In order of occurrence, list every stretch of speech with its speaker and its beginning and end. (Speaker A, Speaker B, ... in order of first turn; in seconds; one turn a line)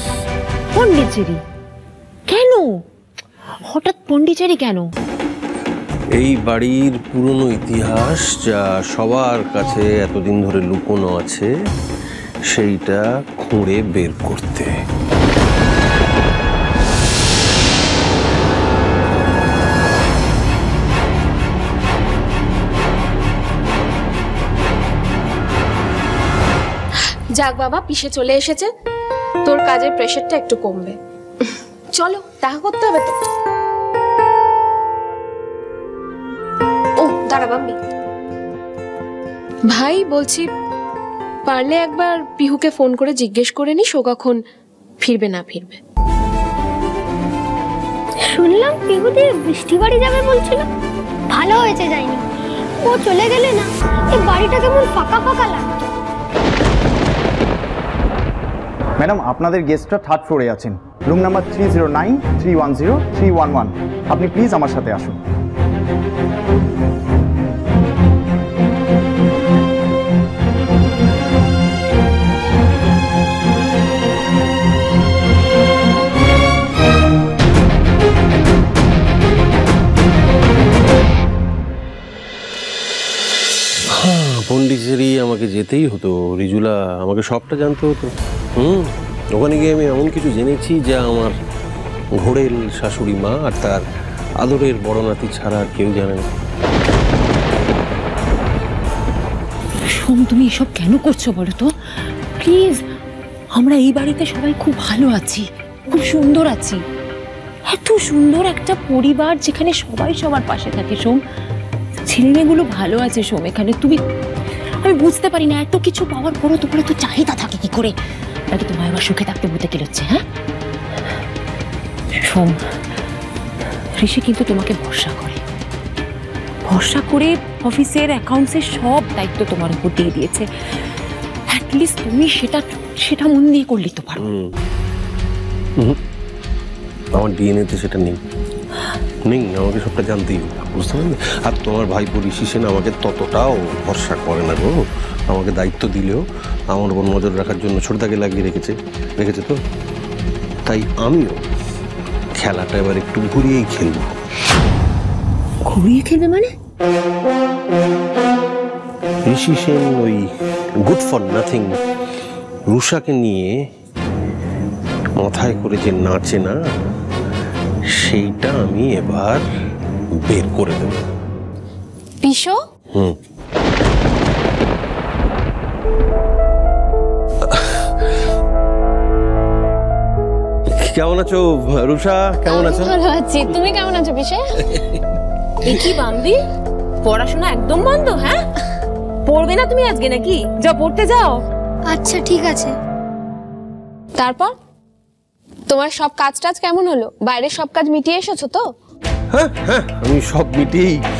Speaker A: 0.7-1.4
Speaker A: 2.3-2.7
Speaker A: 3.7-4.8
Speaker B: 6.2-11.5
Speaker B: 12.5-14.8
Speaker C: 27.4-28.7
Speaker C: 29.4-33.2
Speaker C: 37.0-37.8
Speaker C: 39.7-40.4
Speaker C: 41.5-44.4
Speaker C: 45.0-45.8
Speaker D: 48.3-50.7
Speaker D: 51.3-52.3
Speaker D: 52.8-55.7
Speaker E: 59.0-65.2
Speaker B: 83.9-91.3
Speaker B: 92.2-93.8
Speaker B: 94.4-96.2
Speaker A: 99.9-101.7
Speaker A: 102.4-102.8
Speaker A: 103.5-106.8
Speaker A: 107.7-111.2
Speaker A: 112.0-114.0
Speaker A: 114.8-117.9
Speaker A: 118.5-120.2
Speaker A: 122.2-122.6
Speaker A: 124.0-125.4
Speaker A: 126.7-130.5
Speaker A: 131.5-134.2
Speaker B: 134.2-134.5
Speaker B: 137.2-138.2
Speaker B: 139.2-149.6
Speaker B: 150.7-151.4
Speaker B: 152.3-154.1
Speaker A: 155.7-156.5
Speaker B: 159.2-160.3
Speaker B: 160.8-161.7
Speaker B: 162.7-163.6
Speaker B: 165.2-166.6
Speaker B: 167.9-169.4
Speaker B: 170.2-171.0
Speaker C: 172.2-172.6
Speaker B: 177.5-177.9
Speaker B: 180.7-183.6
Speaker C: 182.5-184.4
Speaker B: 184.6-185.0
Speaker A: 185.6-186.4
Speaker A: 187.0-188.4
Speaker A: 189.2-191.4
Speaker D: 191.9-192.7
Speaker C: 194.2-194.5
Speaker C: 195.7-198.6
Speaker B: 199.3-201.0